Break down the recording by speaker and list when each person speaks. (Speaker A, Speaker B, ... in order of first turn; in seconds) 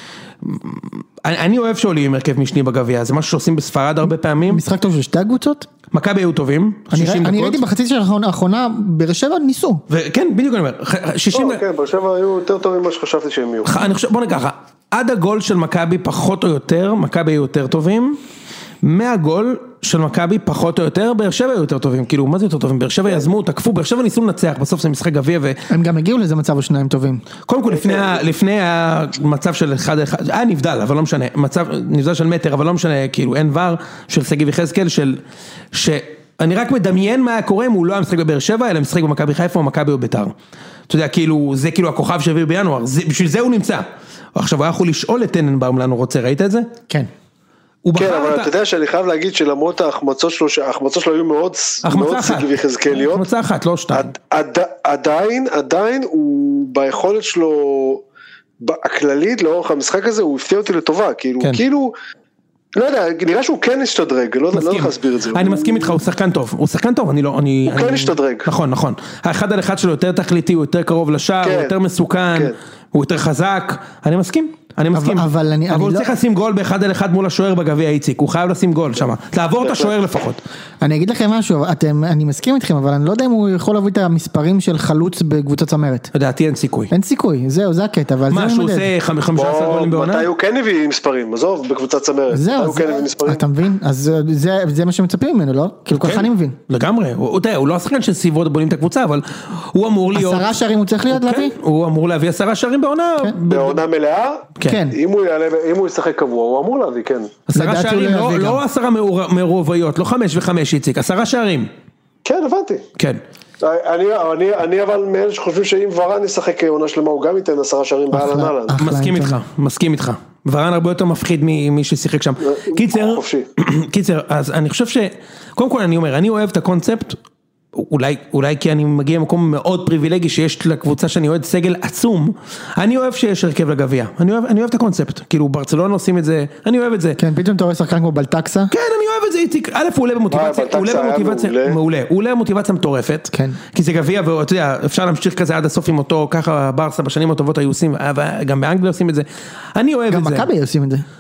Speaker A: 0.4-4.6, 5.9-7.6, 9.9-11.6, 13.7-18.2, 18.8-25.6, 27.5-35.2, 35.7-40.3, 40.9-46.7, 47.8-48.5, 51.8-54.1, 64.5-80.4, 86.1-86.9, 88.3-90.3, 95.9-100.5, 101.1-103.8, 107.5-111.7, 118.8-127.2, 127.7-137.2, 138.7-150.5
Speaker B: 4.4-5.7, 6.9-9.8, 25.7-27.3, 74.9-76.1, 80.8-86.1, 86.9-88.9, 92.3-96.6, 100.1-101.5, 104.7-105.0, 107.5-108.6, 118.1-119.4, 137.2-138.7, 143.3-143.6, 150.1-151.0
Speaker C: 11.3-13.7, 27.7-28.2, 48.0-53.3, 53.9-58.0, 58.6-61.9, 62.8-66.0, 67.7-68.5, 71.4-71.8, 79.6-79.9, 89.3-93.5, 103.5-107.4, 112.2-112.8, 113.6-118.8, 122.4-123.5, 140.3-141.8